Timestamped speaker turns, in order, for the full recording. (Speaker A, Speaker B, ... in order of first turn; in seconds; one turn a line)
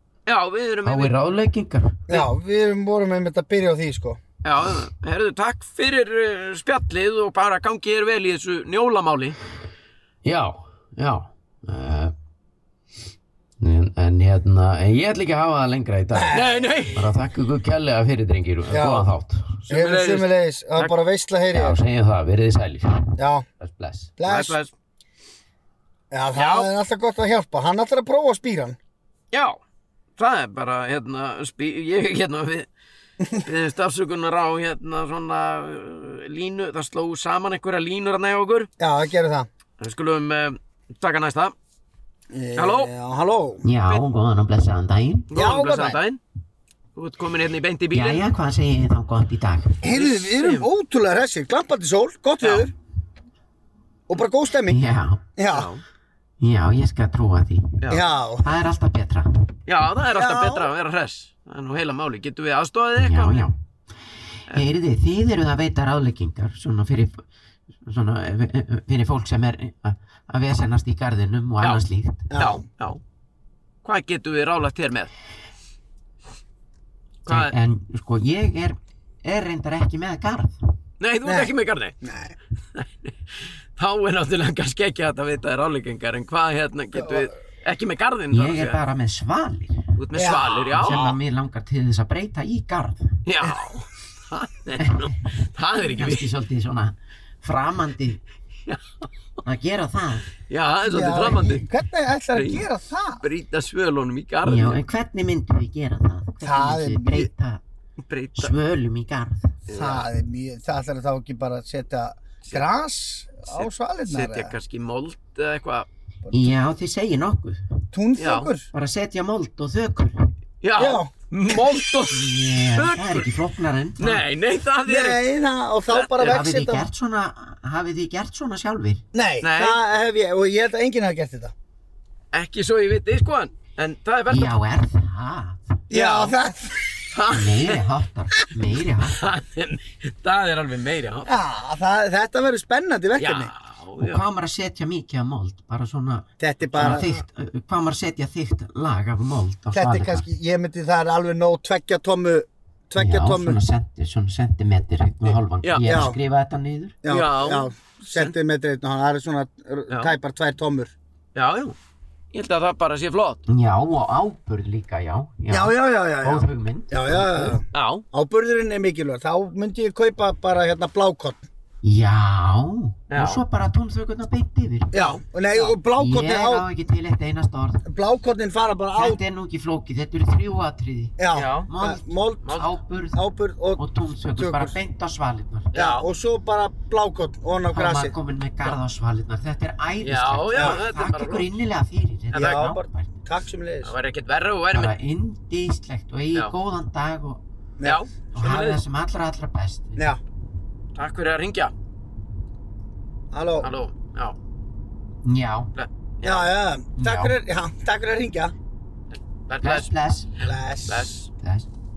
Speaker A: 0.3-1.1
Speaker B: 0.8-2.0
Speaker C: 2.1-4.2
Speaker A: 4.4-9.4
Speaker B: 10.2-12.1
Speaker B: 13.6-16.4
Speaker C: 16.1-16.8
Speaker A: 16.3-17.1
Speaker B: 16.9-19.6
Speaker C: 18.7-19.1
Speaker A: 19.6-20.9
Speaker C: 19.7-21.8
Speaker B: 21.5-24.1
Speaker C: 23.2-23.5
Speaker C: 24.2-24.6
Speaker A: 24.2-24.7
Speaker C: 26.1-28.8
Speaker A: 26.3-26.7
Speaker A: 29.3-29.6
Speaker A: 30.2-32.7
Speaker A: 33.3-38.7
Speaker C: 38.8-39.5
Speaker A: 39.8-41.5
Speaker C: 42.3-43.7
Speaker A: 42.6-42.9
Speaker B: 43.6-45.3
Speaker A: 45.3-46.2
Speaker C: 45.3-46.0
Speaker A: 47.0-48.2
Speaker B: 47.9-49.8
Speaker C: 49.8-52.7
Speaker A: 49.9-50.7
Speaker A: 52.4-52.7
Speaker C: 54.1-54.8
Speaker B: 54.7-55.2
Speaker C: 55.4-55.7
Speaker A: 55.5-55.8
Speaker B: 56.4-59.5
Speaker A: 57.8-58.1
Speaker C: 57.9-58.6
Speaker A: 59.7-63.5
Speaker C: 60.1-60.7
Speaker B: 63.0-63.6
Speaker B: 64.5-67.2
Speaker B: 67.8-72.3
Speaker A: 71.6-73.0
Speaker C: 72.3-72.7
Speaker A: 73.8-75.1
Speaker A: 77.2-77.5
Speaker B: 77.3-80.6
Speaker A: 81.0-82.0
Speaker C: 81.2-82.4
Speaker A: 82.8-83.1
Speaker A: 83.8-88.8
Speaker C: 86.9-87.3
Speaker B: 88.3-89.9
Speaker A: 90.0-91.1
Speaker C: 90.2-91.2
Speaker B: 90.7-93.2
Speaker A: 93.2-96.3
Speaker B: 94.8-95.2
Speaker B: 95.8-98.2
Speaker B: 99.4-100.3
Speaker A: 100.5-101.7
Speaker C: 100.8-103.2
Speaker A: 102.3-102.7
Speaker A: 103.2-104.8
Speaker B: 104.4-107.6
Speaker C: 106.4-107.3
Speaker A: 108.0-108.6
Speaker B: 108.4-109.5
Speaker A: 109.7-110.1
Speaker C: 109.7-114.5
Speaker A: 113.5-115.9
Speaker C: 116.2-116.6
Speaker B: 116.3-117.7
Speaker C: 117.9-118.7
Speaker A: 118.2-118.5
Speaker B: 118.7-120.3
Speaker A: 120.6-123.3
Speaker C: 120.8-121.1
Speaker B: 122.1-124.2
Speaker A: 124.0-125.2
Speaker C: 124.8-126.9
Speaker A: 125.9-126.4
Speaker B: 126.2-129.0
Speaker C: 129.1-131.5
Speaker A: 129.4-129.8
Speaker A: 132.3-134.6
Speaker B: 134.3-135.8
Speaker C: 135.9-136.9
Speaker A: 135.9-136.4
Speaker A: 137.1-137.8
Speaker B: 137.3-139.2
Speaker A: 139.1-141.4
Speaker C: 141.3-143.5
Speaker A: 143.2-144.2
Speaker B: 144.0-150.2
Speaker C: 146.4-147.2
Speaker A: 146.8-147.0
Speaker C: 149.7-153.6
Speaker B: 153.0-157.0
Speaker A: 155.3-156.0
Speaker C: 155.8-156.2
Speaker C: 157.0-160.9
Speaker A: 157.1-158.3
Speaker A: 159.9-160.2
Speaker A: 161.3-161.8
Speaker A: 162.3-163.4
Speaker B: 163.5-167.6
Speaker C: 165.5-171.5
Speaker A: 167.7-168.1
Speaker B: 171.8-175.0
Speaker A: 173.1-173.4
Speaker C: 174.9-176.7
Speaker B: 175.5-177.8
Speaker C: 177.8-179.2
Speaker B: 178.9-183.2
Speaker C: 181.2-184.8
Speaker A: 181.3-181.7
Speaker A: 182.4-182.8
Speaker B: 183.8-185.7
Speaker A: 185.7-186.1
Speaker C: 185.7-188.2
Speaker B: 187.7-193.1
Speaker A: 190.0-191.5
Speaker C: 190.5-190.8
Speaker A: 192.3-192.7
Speaker C: 192.3-193.9
Speaker A: 193.8-195.0
Speaker B: 194.7-197.4
Speaker C: 197.8-198.0
Speaker A: 197.8-198.8
Speaker B: 198.3-200.0
Speaker C: 200.0-200.2
Speaker A: 200.9-201.7
Speaker C: 203.3-203.7
Speaker A: 203.6-204.4
Speaker B: 205.2-205.7
Speaker A: 205.8-206.5
Speaker C: 206.2-208.6
Speaker B: 207.0-207.3
Speaker A: 209.1-209.9
Speaker B: 209.6-210.3
Speaker C: 210.4-211.2
Speaker A: 210.9-211.3
Speaker B: 211.3-211.7